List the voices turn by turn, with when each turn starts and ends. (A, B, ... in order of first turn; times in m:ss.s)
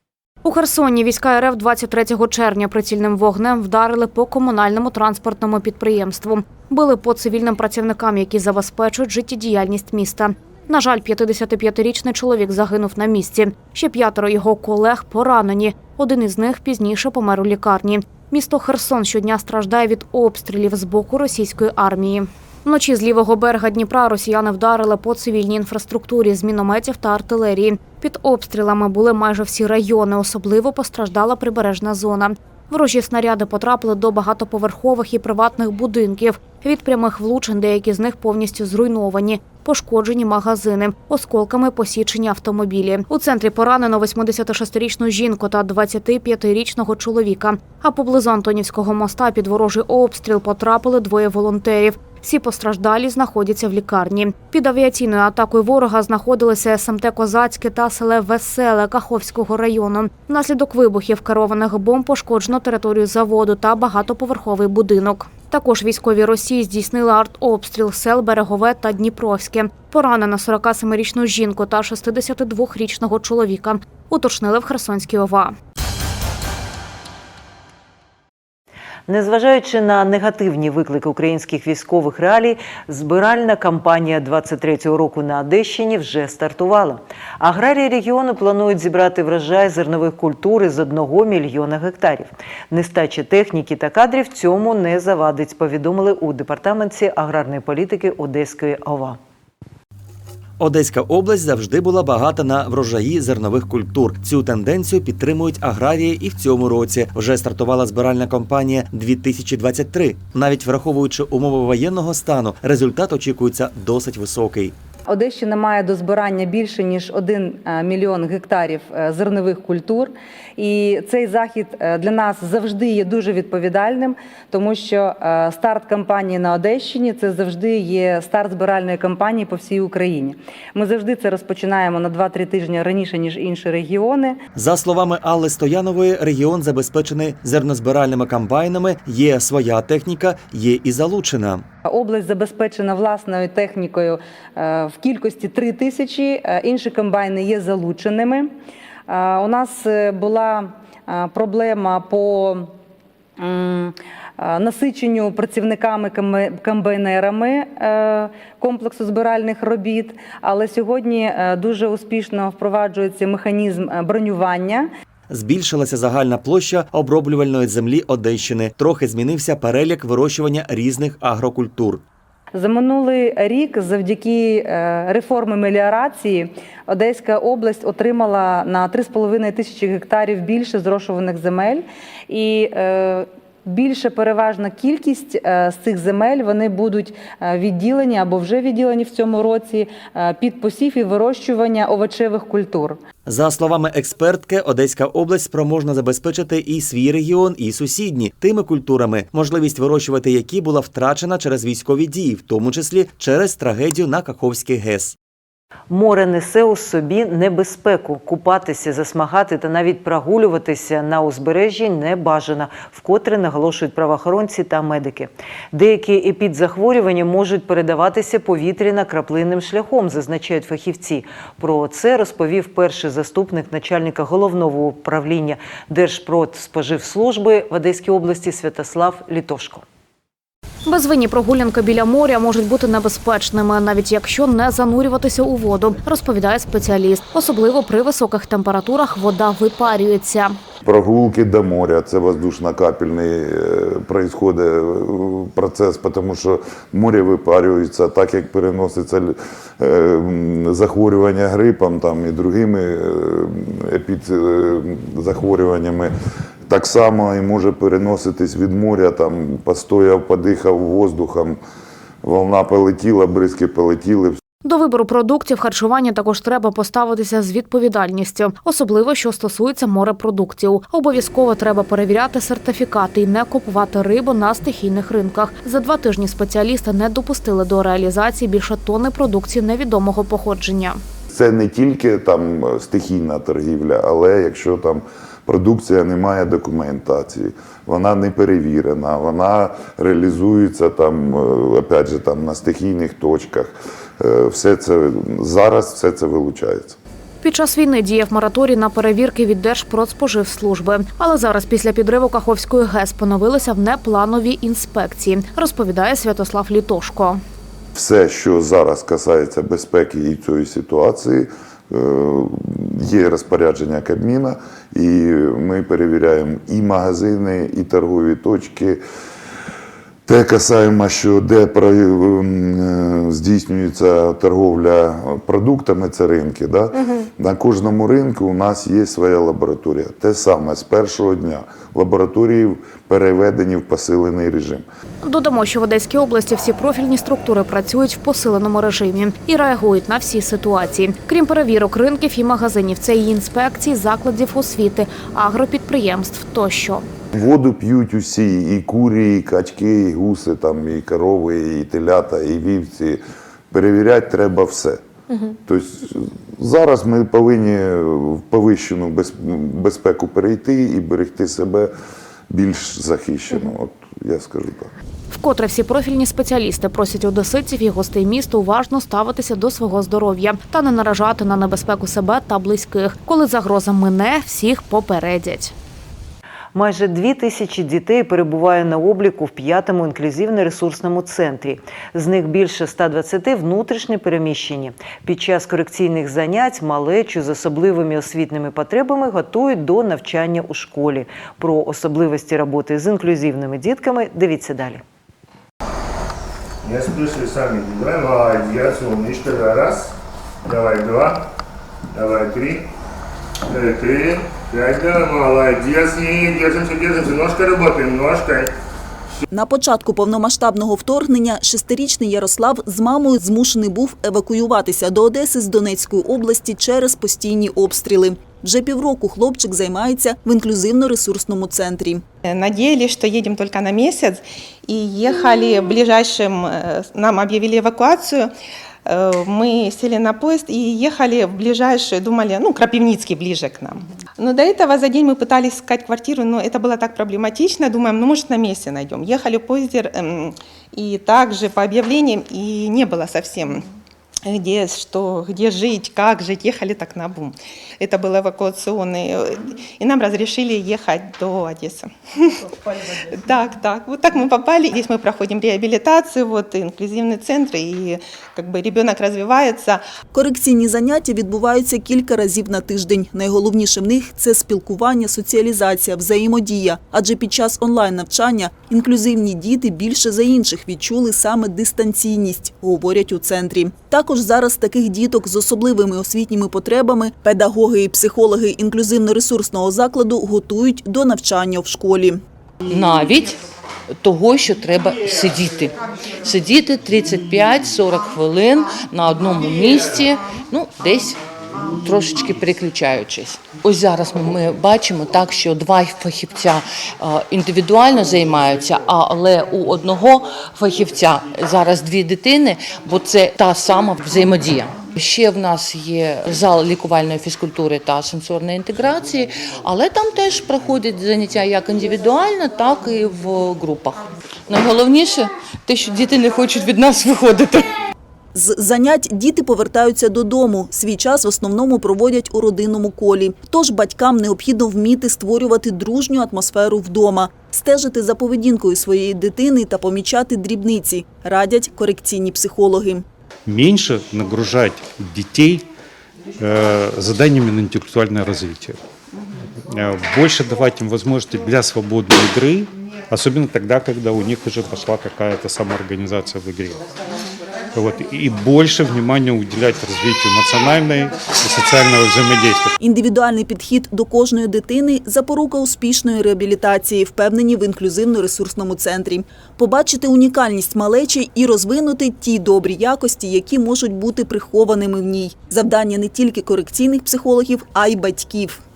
0:00.4-1:15.5 A
1:19.1-1:39.2 B
1:40.6-1:54.7 C
1:55.1-2:14.4 D
2:14.5-2:21.6 C
2:21.9-2:28.5 D
2:29.1-2:32.7 D
2:33.4-2:44.9 D
2:45.3-2:52.0 C
2:52.5-3:13.0 D
3:13.2-3:25.2 C
3:25.9-3:49.8 B
3:50.8-4:00.6 A
4:00.8-4:16.1 E
4:16.7-4:21.6 E
4:22.2-4:24.4 E
4:24.6-4:41.0 A
4:41.3-4:57.0 E
4:57.4-5:07.4 A
5:07.9-5:19.0 E
5:20.2-5:34.8 E
5:35.2-5:47.0 A
5:47.3-5:55.0 E
5:55.6-6:01.9 E
6:02.5-6:04.9 E
6:05.3-6:15.7 A
6:16.7-6:35.0 B
6:36.8-6:40.1 F
6:40.6-6:41.4 F
6:42.1-6:42.9 F
6:43.7-6:48.7 F
6:49.5-7:02.2 G
7:02.4-7:08.5 H
7:09.0-7:23.8 H
7:24.4-7:40.0 H
7:40.3-8:02.4 G
8:02.9-8:03.6 I
8:04.2-8:11.4 I
8:11.9-8:37.9 I
8:38.5-8:53.2 G
8:53.7-8:55.8 J
8:56.6-8:59.0 J
8:59.9-9:07.0 J
9:07.9-9:12.9 J
9:13.0-9:28.8 G